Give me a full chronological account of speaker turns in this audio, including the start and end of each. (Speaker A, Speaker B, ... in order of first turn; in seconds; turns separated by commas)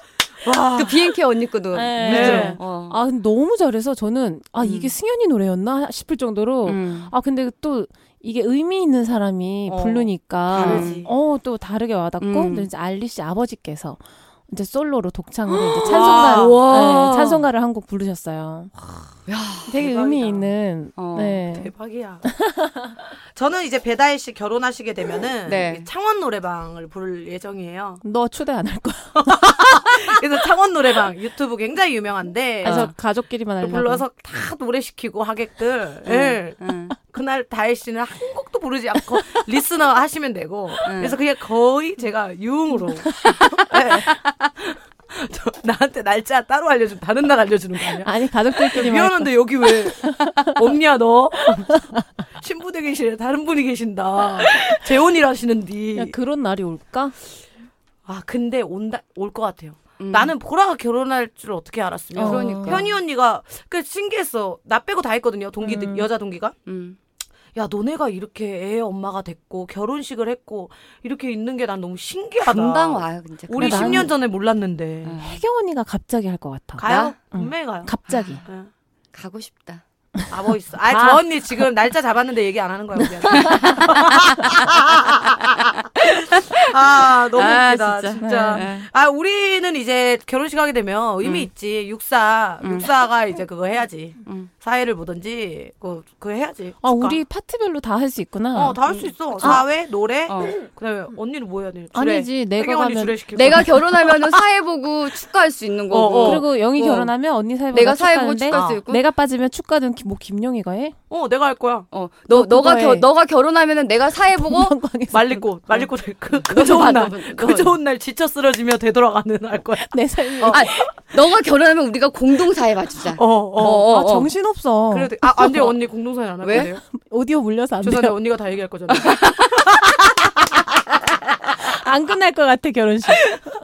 Speaker A: 0.4-1.2, Speaker B: 0.8-3.0, Speaker C: 1.7-18.7, Speaker A: 2.0-2.6, Speaker B: 4.6-4.9, Speaker B: 6.7-7.1, Speaker A: 9.7-11.1, Speaker B: 10.6-11.0, Speaker B: 12.2-12.7, Speaker B: 15.5-17.5, Speaker A: 15.9-16.7, Speaker B: 19.3-19.7, Speaker C: 19.7-21.7, Speaker A: 19.7-20.5, Speaker B: 21.0-21.4, Speaker A: 21.5-22.2, Speaker C: 22.2-23.0, Speaker A: 23.3-28.0, Speaker B: 25.5-25.9, Speaker C: 28.0-30.2, Speaker A: 29.2-32.9, Speaker B: 32.6-32.9, Speaker C: 32.6-34.0, Speaker A: 33.6-56.1, Speaker B: 36.1-37.0, Speaker B: 40.9-41.2, Speaker C: 48.0-50.5, Speaker C: 56.0-57.2, Speaker A: 58.1-66.5, Speaker B: 60.0-60.3, Speaker C: 62.1-62.9, Speaker B: 62.2-63.0, Speaker C: 65.6-66.1, Speaker B: 66.7-67.0, Speaker A: 67.5-75.2, Speaker B: 72.4-74.1, Speaker C: 73.6-74.1, Speaker B: 75.0-75.4, Speaker C: 75.2-78.4, Speaker A: 76.8-78.7, Speaker B: 76.9-77.2, Speaker B: 78.1-78.5, Speaker B: 79.1-79.8, Speaker A: 80.3-97.2, Speaker C: 80.9-81.2, Speaker C: 83.0-83.8, Speaker B: 83.3-84.0, Speaker B: 85.5-88.9, Speaker C: 88.2-88.7, Speaker B: 91.2-91.5, Speaker B: 92.6-92.9, Speaker C: 96.8-98.8, Speaker A: 98.5-104.4, Speaker B: 98.9-99.6, Speaker B: 100.3-100.6, Speaker C: 101.9-103.7, Speaker B: 103.3-107.1, Speaker A: 105.9-106.4, Speaker C: 106.2-111.0, Speaker B: 107.7-109.0, Speaker A: 108.5-108.8, Speaker A: 111.1-111.9, Speaker B: 111.9-114.7, Speaker C: 112.3-113.1, Speaker C: 114.3-115.9, Speaker A: 115.1-120.8, Speaker B: 116.4-117.8, Speaker C: 119.9-120.9, Speaker B: 120.4-124.3, Speaker A: 123.1-123.9, Speaker C: 123.7-125.3, Speaker A: 124.9-126.8, Speaker B: 125.4-125.7, Speaker B: 126.4-126.7, Speaker C: 126.5-128.2, Speaker A: 127.8-130.4, Speaker B: 128.9-129.6, Speaker C: 131.6-133.4